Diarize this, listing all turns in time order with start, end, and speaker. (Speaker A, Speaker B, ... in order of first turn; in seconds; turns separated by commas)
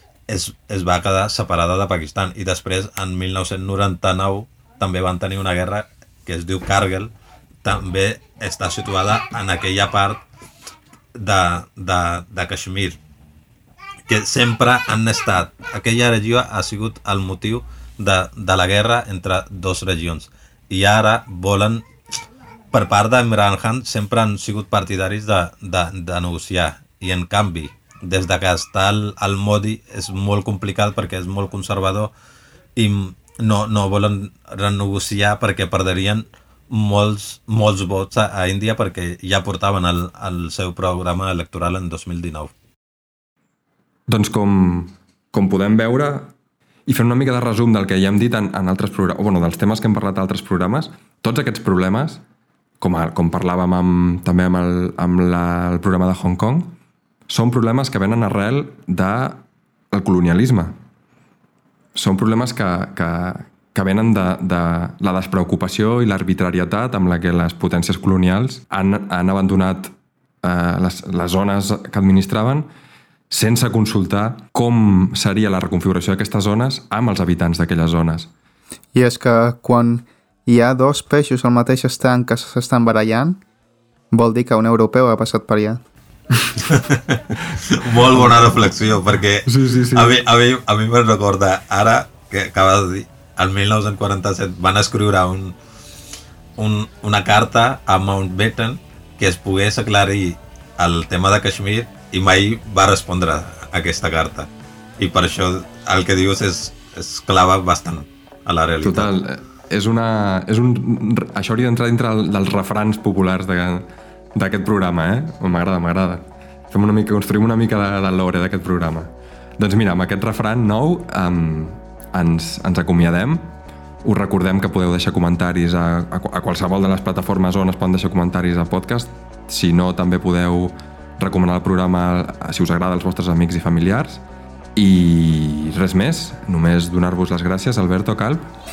Speaker A: 0.3-7.1, Speaker A: 7.6-10.2, Speaker A: 11.1-13.0, Speaker A: 14.1-21.8, Speaker A: 22.7-32.1, Speaker A: 32.8-42.5, Speaker B: 44.1-46.3, Speaker B: 46.9-52.2, Speaker B: 52.8-56.8, Speaker B: 57.3-60.8, Speaker B: 62.0-72.7, Speaker B: 73.3-78.3, Speaker C: 78.9-83.4, Speaker C: 84.1-85.8, Speaker A: 86.6-95.5, Speaker B: 89.5-90.2, Speaker A: 96.6-109.1, Speaker B: 108.8-134.2, Speaker B: 134.8-138.5